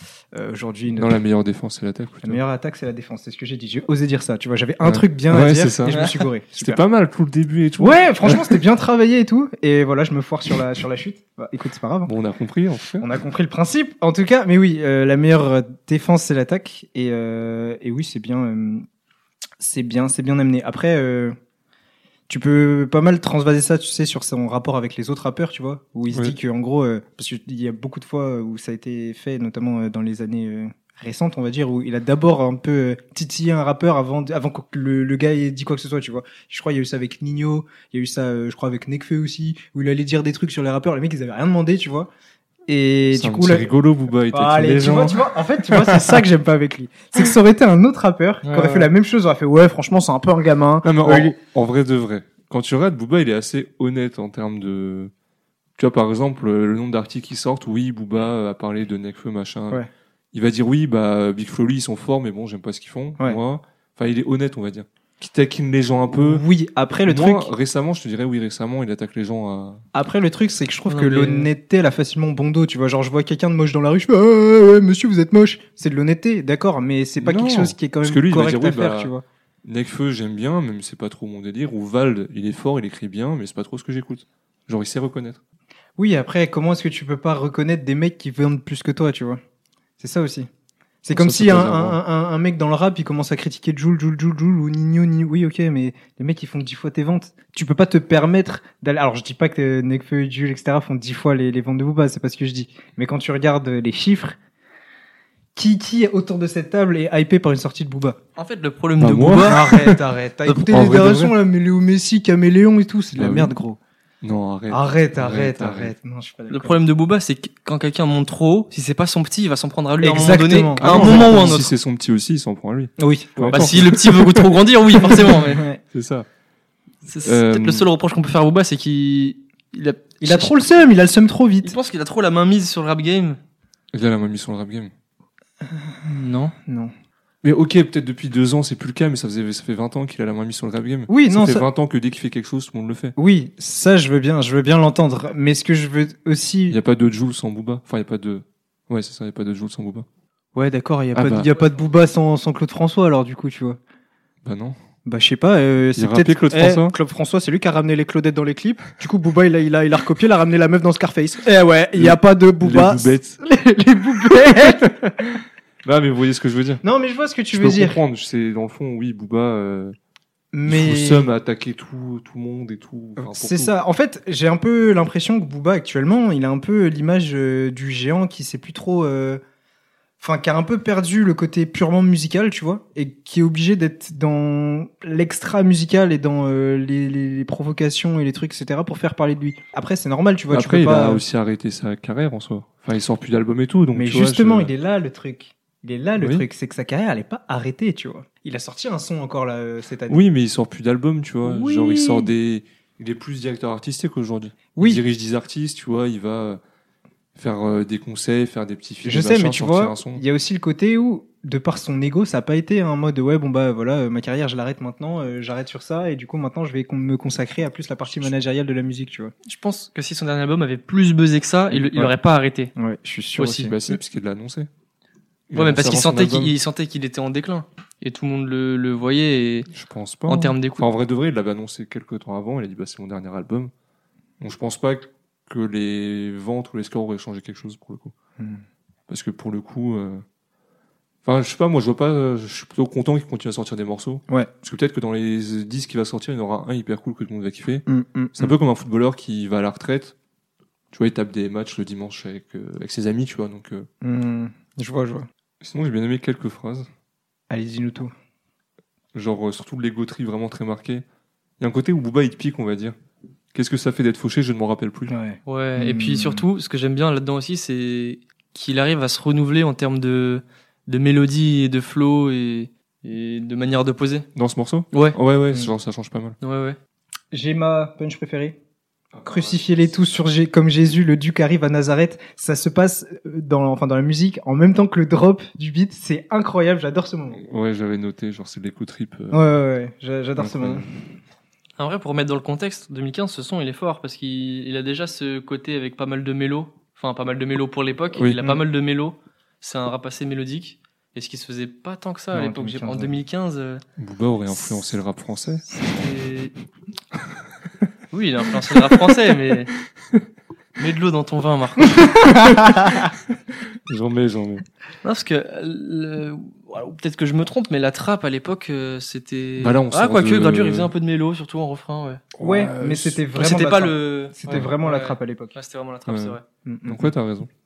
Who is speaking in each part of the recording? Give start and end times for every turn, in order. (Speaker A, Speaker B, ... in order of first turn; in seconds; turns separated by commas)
Speaker A: 0.3-1.2, Speaker B: 0.9-2.4, Speaker A: 2.2-6.8, Speaker B: 4.8-8.6, Speaker C: 5.8-6.1, Speaker A: 7.8-12.1, Speaker B: 12.0-13.1, Speaker A: 13.0-18.9, Speaker A: 19.6-21.4, Speaker A: 22.3-42.1, Speaker B: 26.1-26.4, Speaker A: 42.7-43.7, Speaker B: 43.1-46.2, Speaker A: 44.3-51.3, Speaker C: 48.4-48.9, Speaker B: 48.5-48.8, Speaker B: 50.8-55.1, Speaker B: 55.8-59.8, Speaker B: 60.3-66.4, Speaker A: 66.1-67.5, Speaker B: 67.0-69.8, Speaker A: 69.9-79.2, Speaker C: 70.9-71.5, Speaker B: 77.2-79.1, Speaker B: 79.6-85.4, Speaker A: 86.0-89.4, Speaker A: 90.0-90.5, Speaker A: 91.0-104.3, Speaker B: 91.1-92.0, Speaker A: 105.5-108.2, Speaker C: 108.4-109.6, Speaker B: 109.0-111.3, Speaker A: 109.5-113.8, Speaker B: 113.1-113.5, Speaker B: 114.2-115.9, Speaker A: 114.7-116.8, Speaker C: 116.5-121.7, Speaker A: 120.0-121.6, Speaker B: 120.8-125.3, Speaker A: 123.0-123.9, Speaker C: 123.5-125.7, Speaker A: 125.0-125.8, Speaker B: 125.9-126.3, Speaker C: 127.0-130.6, Speaker B: 127.2-127.9, Speaker A: 130.2-131.8, Speaker C: 131.6-133.4, Speaker B: 133.9-134.9, Speaker A: 135.7-136.1, Speaker C: 136.1-136.5, Speaker A: 136.7-136.9, Speaker B: 137.4-143.1, Speaker A: 141.1-141.7, Speaker A: 143.2-146.8, Speaker B: 146.7-150.1, Speaker A: 150.5-153.8, Speaker B: 151.1-151.5, Speaker B: 154.4-154.8, Speaker A: 155.1-165.1, Speaker B: 155.9-157.0, Speaker B: 161.9-163.4, Speaker B: 164.2-166.8, Speaker A: 166.8-168.0, Speaker B: 167.5-169.9, Speaker A: 170.5-171.3, Speaker B: 170.7-173.7, Speaker A: 173.2-179.4, Speaker A: 180.2-191.2, Speaker B: 190.5-194.7, Speaker A: 193.9-200.2, Speaker B: 196.2-196.5, Speaker B: 200.1-206.6, Speaker A: 201.4-202.3, Speaker A: 204.8-205.0, Speaker B: 207.3-210.2, Speaker A: 209.0-219.3, Speaker B: 218.1-218.3, Speaker C: 219.4-222.7, Speaker B: 221.7-222.1, Speaker A: 222.8-223.8, Speaker C: 223.4-223.7, Speaker B: 223.4-224.7, Speaker B: 225.5-226.5, Speaker C: 225.5-229.7, Speaker B: 229.7-233.7, Speaker C: 230.3-230.9, Speaker B: 234.4-238.1, Speaker A: 238.4-238.6, Speaker B: 239.1-240.2, Speaker B: 241.2-250.1, Speaker A: 247.9-248.5, Speaker B: 250.9-253.9, Speaker A: 254.0-255.3, Speaker B: 255.6-256.9, Speaker A: 257.5-258.1, Speaker B: 259.1-261.0, Speaker B: 261.6-262.9, Speaker B: 263.5-265.1, Speaker A: 265.1-266.4, Speaker C: 265.4-274.3, Speaker B: 274.3-276.4, Speaker C: 274.9-275.2, Speaker C: 276.4-276.8, Speaker A: 277.3-278.6, Speaker B: 279.1-280.1, Speaker A: 279.2-287.4, Speaker B: 287.3-289.4, Speaker A: 289.3-290.9, Speaker B: 290.4-291.0, Speaker C: 291.8-303.8, Speaker B: 298.1-298.6, Speaker A: 302.3-303.2, Speaker B: 304.0-306.1, Speaker C: 305.7-306.5, Speaker C: 308.1-309.7, Speaker B: 308.7-309.2, Speaker C: 310.8-312.1, Speaker A: 312.0-313.1, Speaker B: 312.3-313.1, Speaker B: 313.9-314.6, Speaker C: 315.0-322.2, Speaker B: 319.6-320.9, Speaker B: 322.3-323.2, Speaker A: 322.4-325.6, Speaker C: 323.3-326.4, Speaker B: 326.1-327.5, Speaker A: 326.6-327.1